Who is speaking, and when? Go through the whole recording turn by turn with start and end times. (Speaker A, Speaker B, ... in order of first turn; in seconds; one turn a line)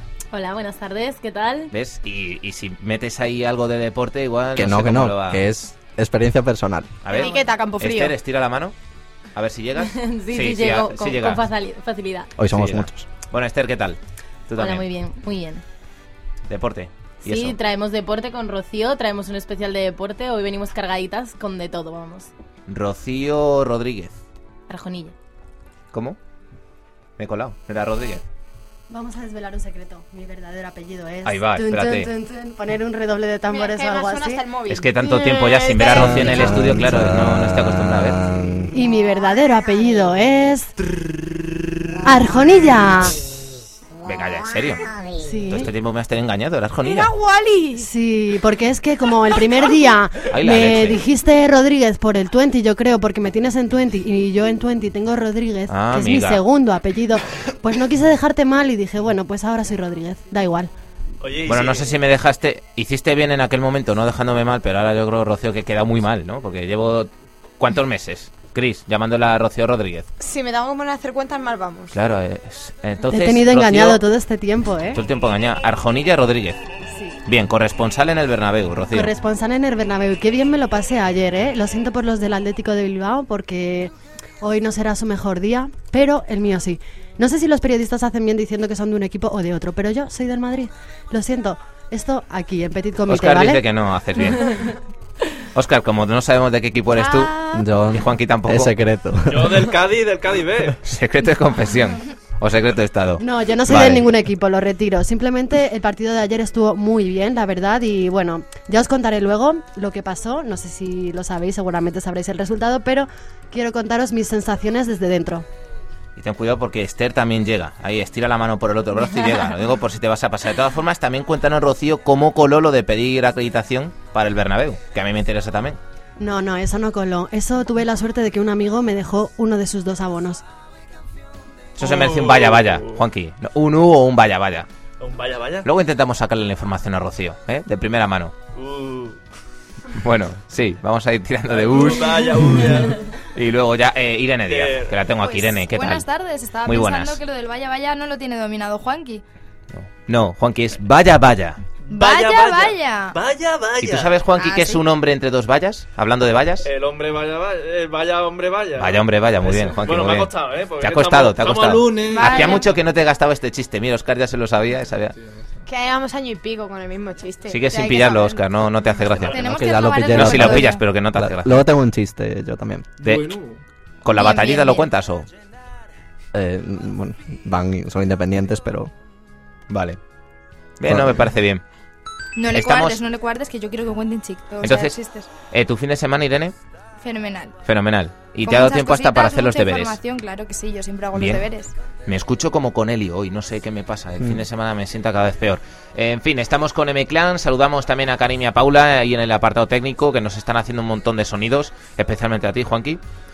Speaker A: 0.3-1.7
Speaker B: 1.7-5.4
Speaker C: 4.5-7.0
Speaker B: 7.0-8.8
Speaker D: 7.1-8.2
Speaker B: 9.3-11.4
Speaker A: 9.8-12.3
Speaker C: 12.4-13.0
Speaker B: 12.5-14.8
Speaker A: 14.6-15.6
Speaker B: 16.5-17.6
Speaker A: 17.2-22.3
Speaker B: 22.7-24.2
Speaker A: 24.7-25.1
Speaker B: 25.9-26.2
Speaker B: 27.2-28.2
Speaker E: 28.9-34.5
Speaker B: 31.2-32.1
Speaker D: 33.5-36.2
Speaker B: 34.7-38.2
Speaker C: 35.9-38.7
Speaker E: 38.7-40.7
Speaker E: 42.0-43.1
Speaker B: 44.0-44.9
Speaker E: 45.2-45.7
Speaker B: 45.5-47.1
Speaker D: 46.8-47.9
Speaker E: 47.8-60.7
Speaker B: 50.3-51.0
Speaker B: 55.7-56.4
Speaker F: 61.2-61.9
Speaker B: 61.5-70.1
Speaker D: 70.2-71.9
Speaker B: 71.9-74.0
Speaker E: 73.1-75.0
Speaker B: 74.9-76.6
Speaker B: 77.2-79.1
Speaker E: 78.9-93.6
Speaker B: 93.1-94.7
Speaker B: 95.5-97.3
Speaker C: 97.5-99.7
Speaker B: 97.8-98.7
Speaker F: 99.3-100.8
Speaker B: 100.8-104.0
Speaker E: 103.2-115.4
Speaker B: 116.2-125.8
Speaker E: 126.2-130.4
Speaker F: 131.8-133.0
Speaker B: 131.8-134.7
Speaker F: 135.0-135.7
Speaker B: 135.6-138.3
Speaker F: 138.5-139.2
Speaker B: 139.9-142.7
Speaker F: 141.5-143.1
Speaker B: 143.3-146.0
Speaker F: 144.5-145.1
Speaker G: 145.7-149.2
Speaker B: 146.7-147.2
Speaker B: 149.7-151.6
Speaker F: 151.9-154.2
Speaker G: 151.9-153.2
Speaker B: 153.8-156.7
Speaker G: 154.4-154.7
Speaker F: 156.6-162.6
Speaker B: 158.8-165.2
Speaker G: 162.1-162.7
Speaker F: 165.2-165.6
Speaker D: 165.7-168.4
Speaker B: 167.5-169.5
Speaker F: 169.1-169.5
Speaker G: 169.3-170.8
Speaker C: 169.4-172.9
Speaker B: 170.1-171.6
Speaker F: 173.0-173.6
Speaker B: 173.0-173.3
Speaker B: 174.0-175.3
Speaker G: 174.2-174.9
Speaker C: 176.3-178.9
Speaker B: 179.7-180.0
Speaker B: 180.8-181.6
Speaker C: 180.8-181.3
Speaker G: 182.3-185.3
Speaker B: 182.5-183.0
Speaker B: 184.6-186.5
Speaker G: 187.0-187.6
Speaker B: 187.7-190.0
Speaker G: 188.4-191.7
Speaker B: 191.1-191.4
Speaker B: 192.1-203.0